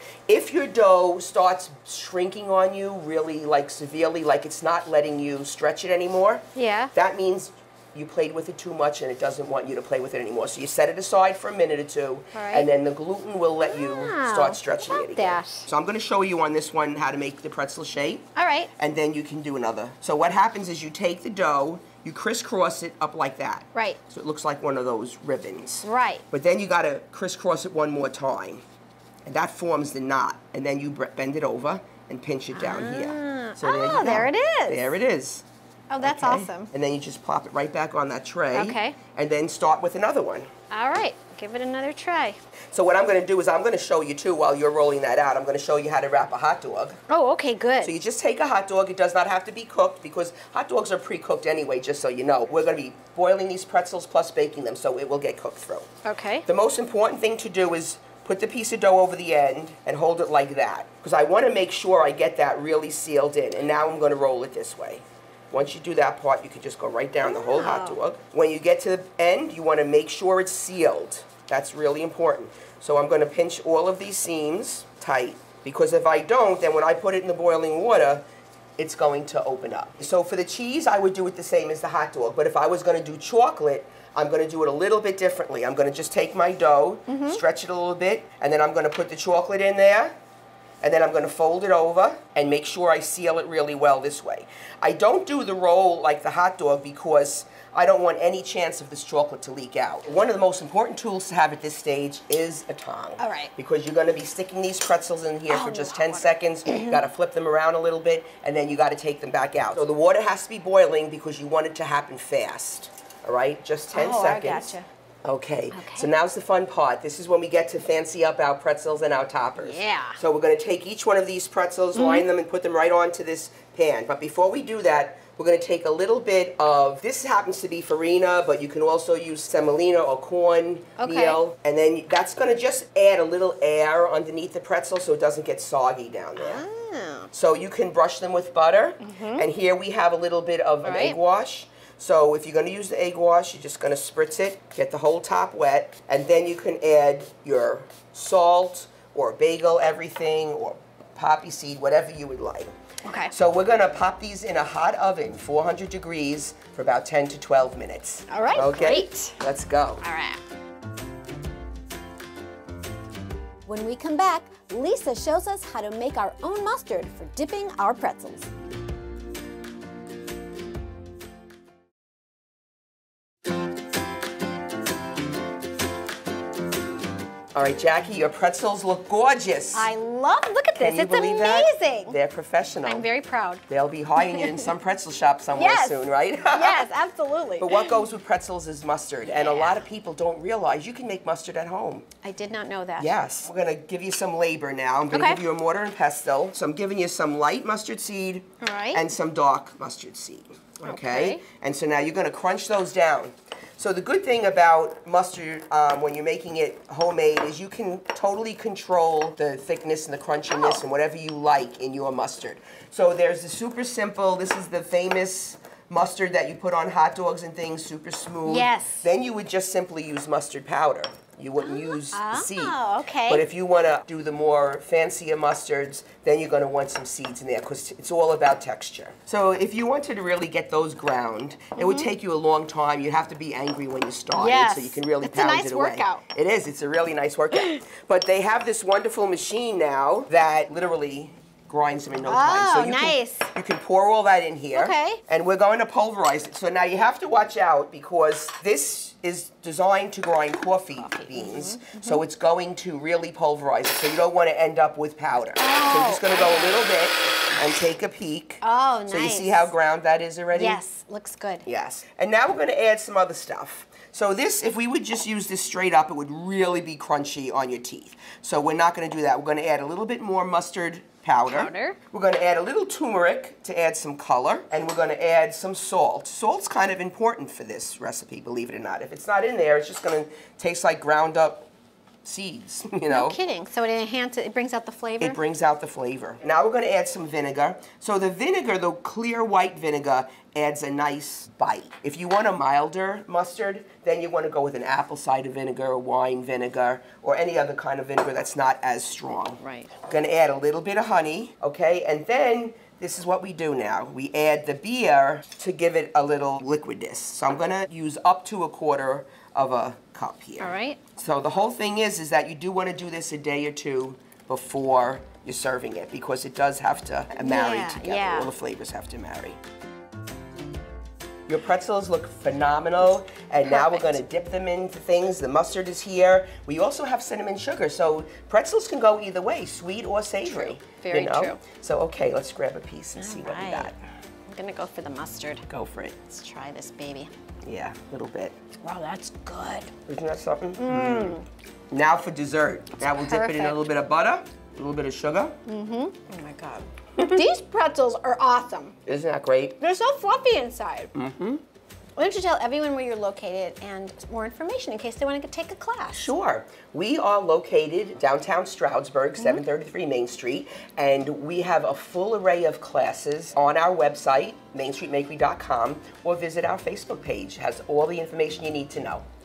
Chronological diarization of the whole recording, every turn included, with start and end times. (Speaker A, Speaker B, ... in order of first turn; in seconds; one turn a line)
Speaker A: 0.3-28.6
Speaker B: 6.5-6.9
Speaker B: 12.3-12.7
Speaker B: 13.6-15.7
Speaker B: 18.4-18.7
Speaker B: 23.7-24.0
Speaker B: 25.8-26.2
Speaker A: 29.2-35.5
Speaker B: 32.5-34.9
Speaker B: 35.9-36.7
Speaker A: 36.0-40.5
Speaker B: 38.5-39.0
Speaker B: 40.7-42.4
Speaker A: 42.7-47.0
Speaker B: 47.1-48.0
Speaker A: 47.8-55.9
Speaker B: 56.0-56.5
Speaker A: 56.5-78.2
Speaker B: 67.2-68.0
Speaker A: 78.8-90.1
Speaker B: 87.1-87.4
Speaker A: 90.8-136.7
Speaker B: 103.2-103.5
Speaker B: 105.5-107.0
Speaker B: 113.9-114.8
Speaker B: 115.7-116.1
Speaker B: 119.6-120.2
Speaker B: 121.9-122.3
Speaker B: 131.0-131.4
Speaker B: 136.4-137.3
Speaker A: 137.3-152.7
Speaker B: 139.0-139.5
Speaker B: 140.8-141.2
Speaker B: 153.1-153.3
Speaker A: 153.3-160.0
Speaker B: 158.3-159.4
Speaker B: 160.0-160.4
Speaker B: 163.7-168.5
Speaker A: 177.6-179.9
Speaker B: 179.7-182.2
Speaker A: 180.8-183.1
Speaker B: 182.8-183.6
Speaker A: 183.7-186.9
Speaker B: 184.2-184.7
Speaker B: 185.5-187.9
Speaker A: 187.6-192.1
Speaker B: 189.3-189.8
Speaker B: 192.2-193.2
Speaker A: 193.0-260.8
Speaker B: 195.1-195.4
Speaker B: 198.6-199.1
Speaker B: 200.8-201.4
Speaker B: 210.5-210.8
Speaker B: 218.4-219.1
Speaker B: 221.6-223.4
Speaker B: 231.8-232.1
Speaker B: 234.3-236.2
Speaker B: 242.3-243.5
Speaker B: 244.7-245.2
Speaker B: 251.0-252.2
Speaker B: 255.6-256.9
Speaker B: 258.6-259.7
Speaker B: 260.5-261.7
Speaker A: 261.7-281.7
Speaker B: 271.5-272.0
Speaker A: 282.2-283.4
Speaker B: 283.1-285.4
Speaker A: 285.2-319.6
Speaker B: 299.6-299.9
Speaker B: 310.6-311.0
Speaker B: 317.4-318.5
Speaker A: 321.5-333.9
Speaker B: 323.6-324.2
Speaker B: 330.4-331.6
Speaker B: 333.2-333.9
Speaker B: 334.5-335.6
Speaker A: 335.7-336.2
Speaker B: 336.3-337.3
Speaker A: 337.6-338.6
Speaker B: 338.8-339.9
Speaker A: 340.1-341.4
Speaker B: 340.8-341.4
Speaker A: 341.9-345.6
Speaker B: 343.0-343.8
Speaker B: 345.6-349.0
Speaker A: 349.1-349.8
Speaker B: 349.8-351.1
Speaker A: 351.1-351.6
Speaker B: 352.2-356.3
Speaker A: 356.1-369.2
Speaker B: 359.4-359.6